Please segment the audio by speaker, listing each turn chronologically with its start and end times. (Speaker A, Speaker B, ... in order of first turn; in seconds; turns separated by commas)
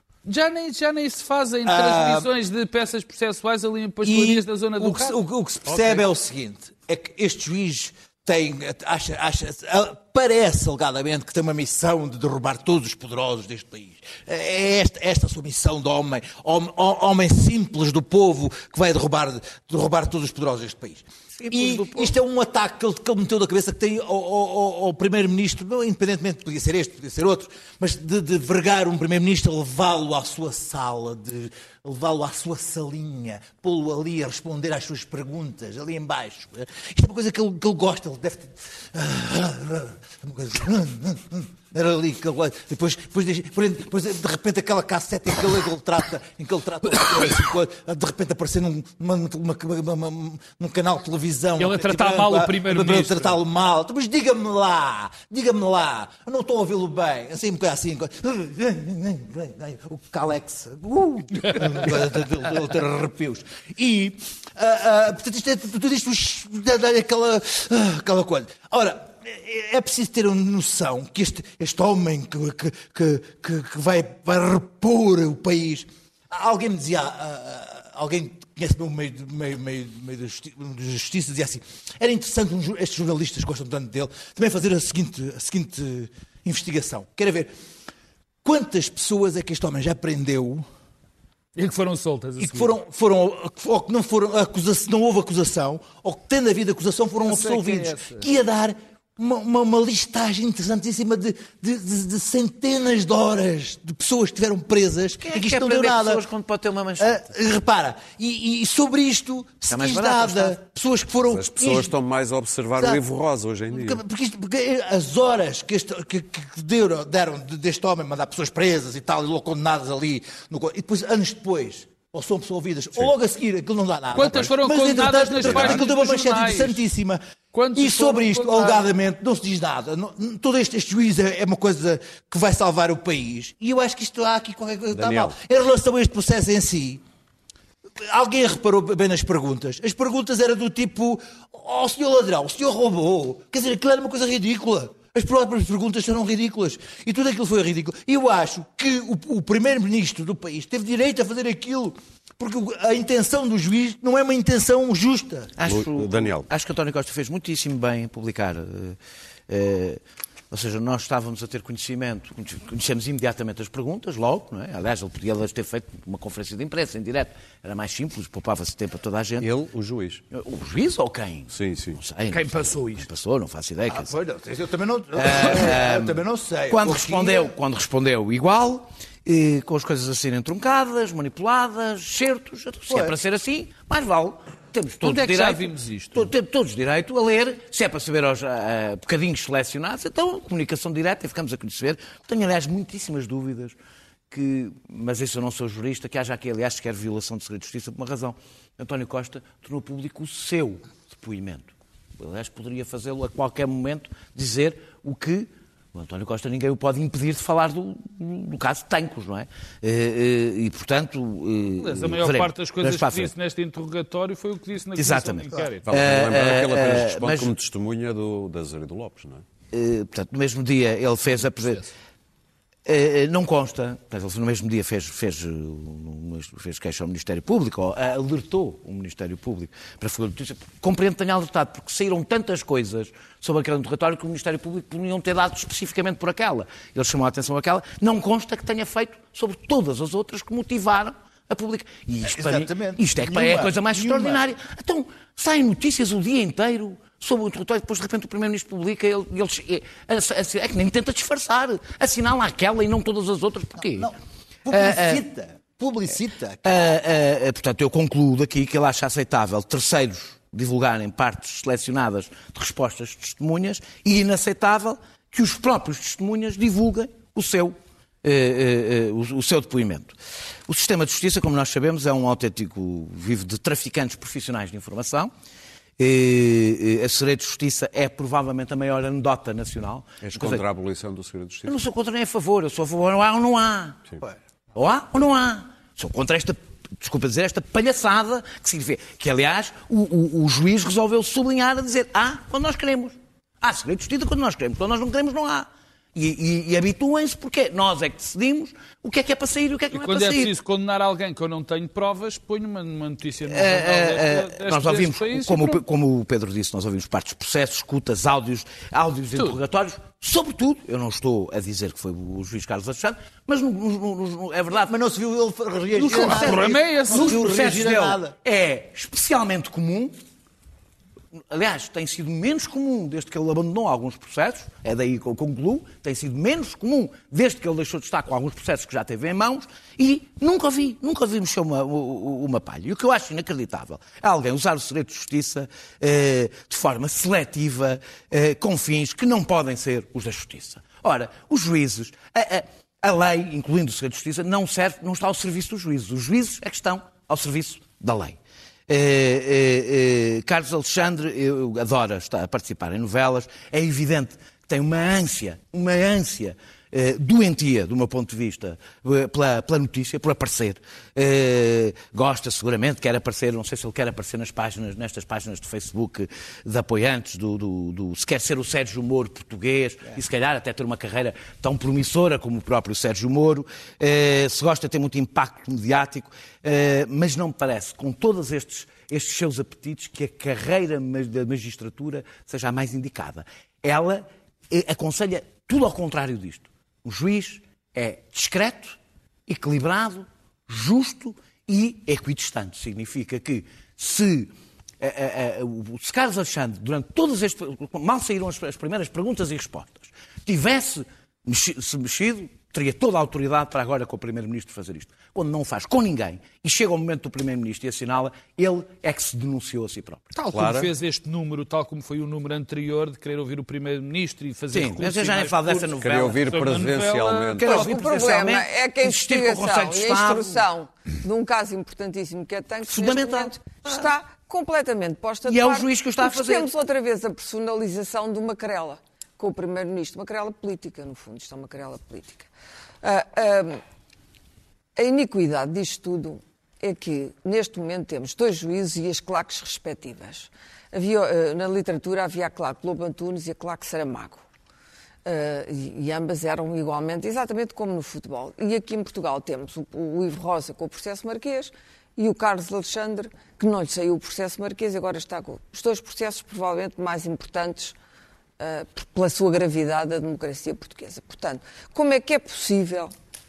Speaker A: 0.2-6.0, Speaker B: 1.6-2.3, Speaker B: 4.0-87.5, Speaker C: 21.4-22.1, Speaker A: 51.6-53.4, Speaker B: 88.4-90.7, Speaker A: 91.6-92.8, Speaker B: 92.4-106.2, Speaker A: 97.2-98.3, Speaker C: 105.2-107.3, Speaker B: 107.0-111.9, Speaker C: 109.7-110.6, Speaker D: 111.3-114.0, Speaker B: 113.7-127.2, Speaker A: 124.1-126.8, Speaker D: 124.2-124.5, Speaker D: 125.4-125.8, Speaker A: 127.5-128.9, Speaker B: 127.7-137.0, Speaker D: 134.9-135.4, Speaker B: 138.0-155.6, Speaker C: 155.6-159.0, Speaker D: 155.7-156.5, Speaker C: 159.5-160.0, Speaker C: 160.5-169.5, Speaker D: 169.4-170.2, Speaker C: 170.3-174.1, Speaker D: 171.5-172.0, Speaker A: 172.3-173.1, Speaker B: 173.9-177.6, Speaker C: 175.2-193.8, Speaker B: 182.9-183.2, Speaker A: 185.0-186.3, Speaker C: 194.3-213.3, Speaker A: 211.8-215.9, Speaker C: 215.0-217.5, Speaker D: 215.9-219.4, Speaker C: 219.7-221.8, Speaker A: 221.6-221.8, Speaker C: 222.9-254.1, Speaker B: 242.2-244.5, Speaker B: 253.8-256.8, Speaker C: 254.7-255.2, Speaker C: 256.6-270.2, Speaker C: 270.7-275.3, Speaker C: 276.0-280.6, Speaker D: 280.2-281.8, Speaker C: 281.7-284.1, Speaker C: 284.7-300.5, Speaker A: 299.9-305.8, Speaker C: 303.5-314.9, Speaker B: 314.9-318.4, Speaker A: 316.0-317.4, Speaker C: 316.1-320.1, Speaker C: 321.5-410.3, Speaker A: 410.4-415.9, Speaker D: 410.5-410.9, Speaker C: 414.7-416.6, Speaker D: 416.0-417.9, Speaker A: 416.4-418.0, Speaker C: 417.6-420.6, Speaker E: 417.7-432.5, Speaker C: 422.9-424.1, Speaker C: 425.4-426.7, Speaker E: 433.0-433.8, Speaker E: 435.0-444.4, Speaker E: 445.2-458.0, Speaker E: 458.6-463.1